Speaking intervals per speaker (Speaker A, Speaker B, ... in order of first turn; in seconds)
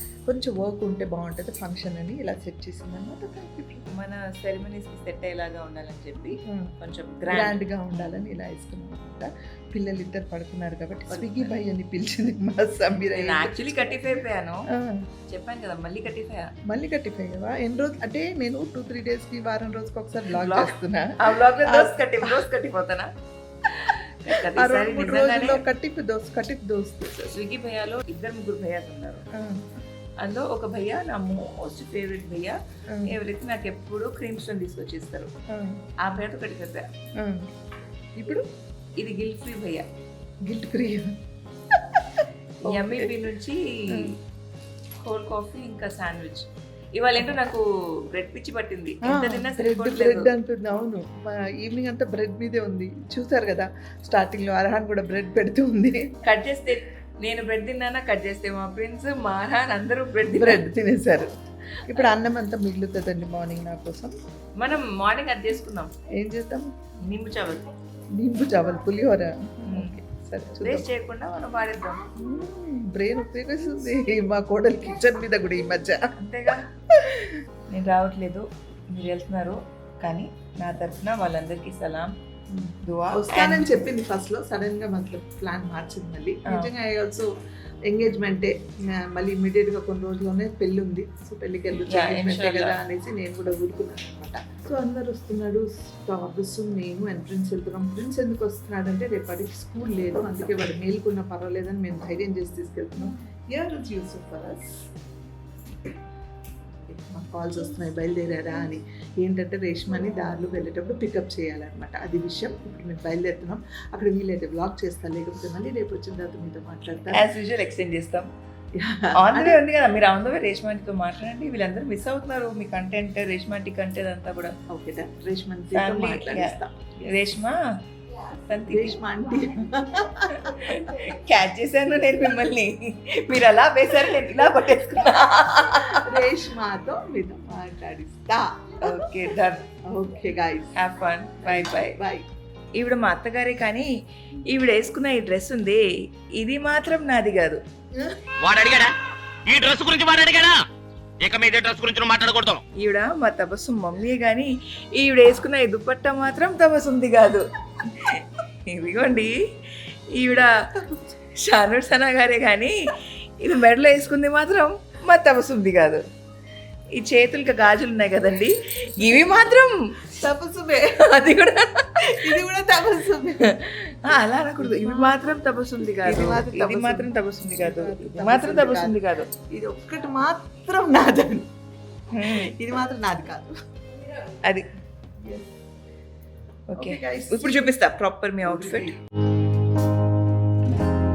Speaker A: 0.3-3.8, 6.5-6.7, 7.3-15.1, 16.7-22.4, 24.3-27.4, 29.3-29.6, 35.5-35.8, 37.2-37.5, 38.2-38.4, 40.4-41.1, 42.6-43.1, 49.0-56.1, 60.3-61.3, 61.8-64.1, 66.1-66.8, 68.1-70.9, 72.2-76.1, 76.9-77.4, 82.5-87.3, 87.9-104.8, 106.9-117.3, 118.8-119.6, 124.7-126.8, 128.7-130.4, 135.5-139.1, 139.8-140.7, 141.4-142.2, 170.1-171.0, 172.0-173.5, 174.6-175.2, 176.0-178.9, 179.5-181.5, 182.2-183.5, 185.2-185.5, 186.8-187.7, 188.5-188.9
Speaker B: 3.9-8.1, 11.1-11.5, 13.2-14.6, 15.3-16.5, 20.4-23.1, 24.3-25.6, 27.3-29.2, 30.2-35.3, 36.0-36.9, 39.0-39.9, 42.7-44.1, 45.0-50.3, 56.2-60.6, 64.6-65.9, 67.0-67.6, 69.7-70.0, 70.6-72.1, 76.2-76.6, 77.7-82.1, 82.8-83.7, 91.9-92.7, 117.1-118.3, 119.2-124.5, 125.7-127.6, 128.5-129.0, 130.4-136.1, 138.8-139.7, 140.8-142.0, 142.8-143.9, 144.5-145.8, 146.4-147.6, 152.8-160.5, 161.4-166.0, 166.9-169.8, 171.0-172.3, 173.5-179.3, 182.1-182.5, 186.7-188.9
Speaker C: 148.4-148.9, 149.4-150.6, 151.2-152.6